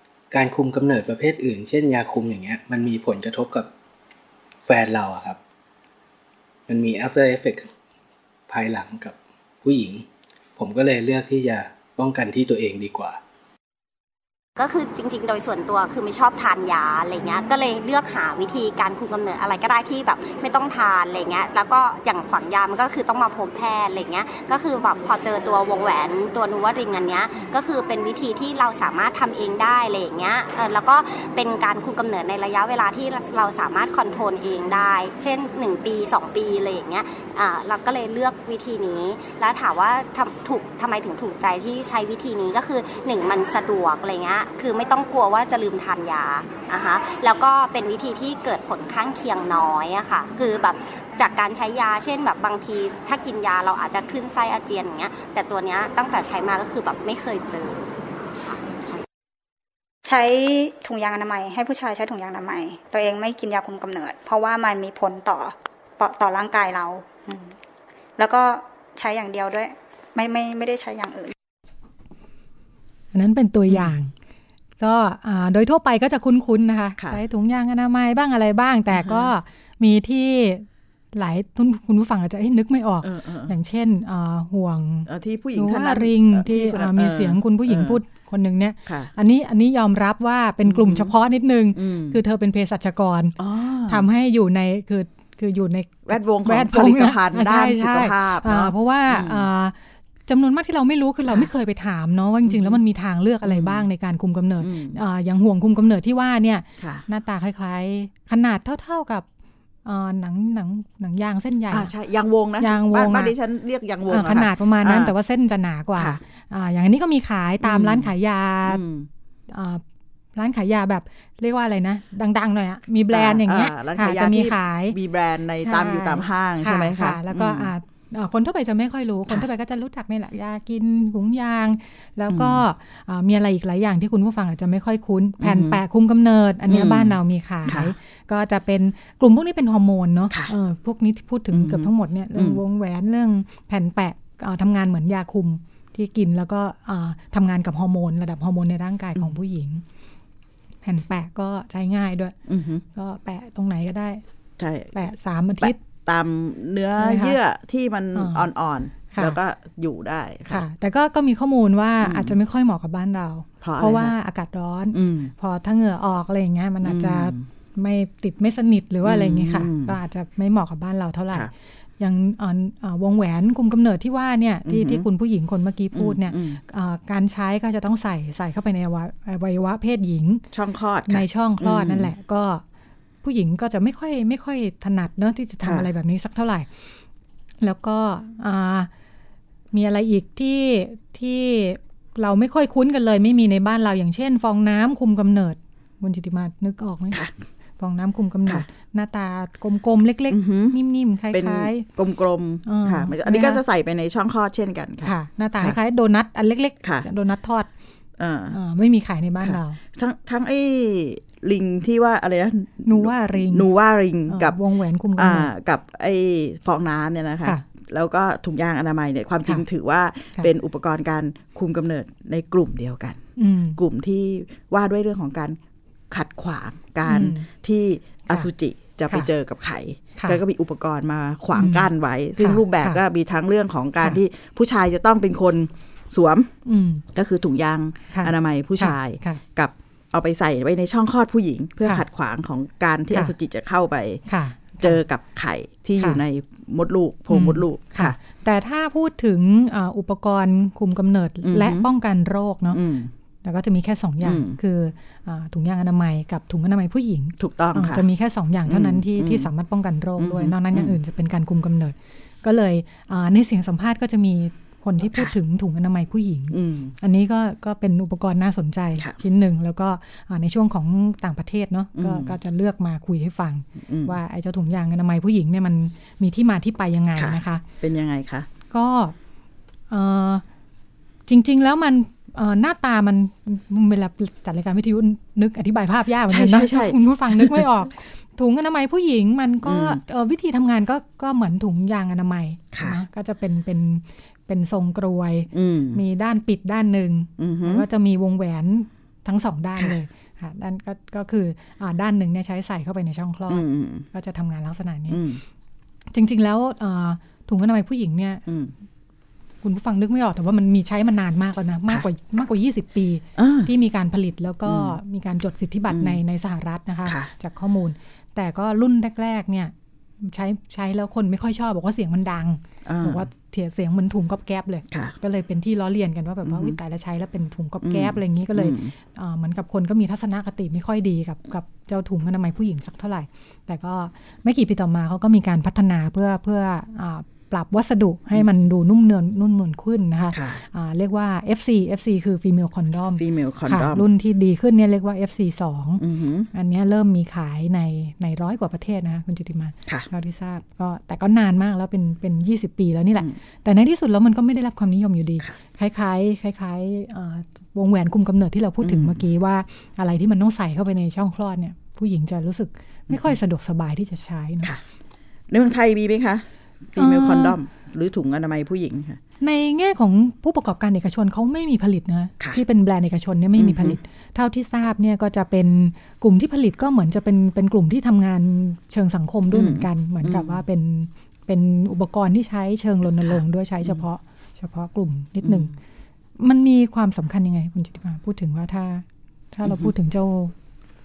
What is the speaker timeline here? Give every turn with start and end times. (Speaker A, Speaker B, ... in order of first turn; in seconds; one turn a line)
Speaker A: 0.3-3.7
Speaker A: 4.6-5.4
Speaker A: 6.7-7.7
Speaker A: 8.5-10.1
Speaker A: 10.6-13.2
Speaker B: 14.6-58.6
Speaker C: 60.1-67.5
Speaker C: 68.2-71.3
Speaker D: 73.1-74.1
Speaker E: 73.7-73.9
Speaker D: 74.8-93.4
Speaker E: 78.9-79.3
Speaker E: 83.0-83.5
Speaker E: 85.1-88.0
Speaker E: 88.9-89.1
Speaker E: 90.6-91.1
Speaker E: 91.8-92.2
Speaker E: 93.4-94.1
Speaker D: 93.9-99.8
Speaker E: 96.1-99.5
Speaker D: 100.3-109.3
Speaker E: 102.4-102.8
Speaker E: 103.4-103.9
Speaker E: 104.6-105.0
Speaker E: 106.8-107.1
Speaker D: 109.8-111.9
Speaker E: 111.7-115.1
Speaker D: 112.6-113.3
Speaker D: 114.1-118.8
Speaker E: 116.0-116.2
Speaker E: 117.6-118.1
Speaker E: 118.7-119.1
Speaker D: 119.5-119.8
Speaker D: 120.4-125.0
Speaker E: 123.1-127.7
Speaker D: 125.6-149.8
Speaker E: 132.3-132.6
Speaker E: 135.4-135.8
Speaker E: 136.7-137.9
Speaker E: 141.5-142.6
Speaker D: 150.8-152.4
Speaker E: 152.5-152.8
Speaker D: 152.9-154.2
Speaker E: 154.6-154.9
Speaker D: 154.9-155.8
Speaker E: 155.6-160.7
Speaker D: 157.0-157.4
Speaker D: 158.1-158.5
Speaker D: 159.1-159.4
Speaker D: 160.5-180.4
Speaker E: 162.0-162.4
Speaker E: 163.6-164.1
Speaker E: 164.9-165.3
Speaker E: 166.8-167.4
Speaker E: 169.0-169.9
Speaker E: 174.7-175.1
Speaker E: 175.9-176.6
Speaker E: 180.5-182.1
Speaker D: 181.1-182.6
Speaker D: 183.2-186.7
Speaker E: 185.6-185.9
Speaker D: 187.6-188.9
Speaker D: 189.7-197.2
Speaker D: 197.8-201.9
Speaker E: 200.3-200.8
Speaker E: 201.3-205.8
Speaker D: 202.7-203.6
Speaker D: 205.0-207.7
Speaker E: 208.2-208.6
Speaker D: 208.5-209.8
Speaker E: 209.4-214.6
Speaker D: 212.9-213.7
Speaker D: 214.3-215.5
Speaker E: 215.2-223.2
Speaker D: 223.4-223.8
Speaker E: 223.8-225.6
Speaker E: 226.1-236.5
Speaker D: 227.1-227.5
Speaker D: 231.6-233.0
Speaker D: 236.7-237.0
Speaker E: 237.1-244.2
Speaker D: 238.1-239.4
Speaker D: 244.3-245.0
Speaker E: 244.8-248.2
Speaker D: 247.3-252.8
Speaker E: 251.4-251.9
Speaker E: 252.7-253.1
Speaker D: 253.4-277.6
Speaker E: 254.2-254.6
Speaker E: 257.4-258.1
Speaker E: 258.7-259.5
Speaker E: 260.2-261.0
Speaker E: 266.5-266.9
Speaker E: 271.9-272.4
Speaker E: 273.8-274.2
Speaker E: 277.2-278.5
Speaker D: 278.7-279.1
Speaker D: 279.9-280.4
Speaker D: 281.3-305.2
Speaker E: 286.3-287.7
Speaker E: 289.6-290.0
Speaker E: 292.7-293.0
Speaker E: 295.5-296.0
Speaker E: 297.4-297.9
Speaker E: 303.5-304.1
Speaker E: 305.1-305.4
Speaker D: 306.1-308.4
Speaker E: 308.5-308.7
Speaker D: 309.6-346.0
Speaker E: 313.4-313.7
Speaker E: 314.6-315.0
Speaker E: 315.9-316.2
Speaker E: 317.0-317.3
Speaker E: 322.9-323.3
Speaker E: 326.4-326.8
Speaker E: 327.8-328.9
Speaker E: 340.3-340.6
Speaker E: 343.2-344.1
Speaker E: 346.0-346.5
Speaker D: 346.5-364.7
Speaker E: 358.8-359.2
Speaker E: 363.1-363.4
Speaker E: 365.5-369.2
Speaker D: 367.0-367.6
Speaker D: 369.4-385.7
Speaker E: 373.6-374.0
Speaker E: 379.5-380.6
Speaker E: 383.2-384.0
Speaker E: 385.4-385.8
Speaker D: 386.4-390.5
Speaker E: 389.6-389.9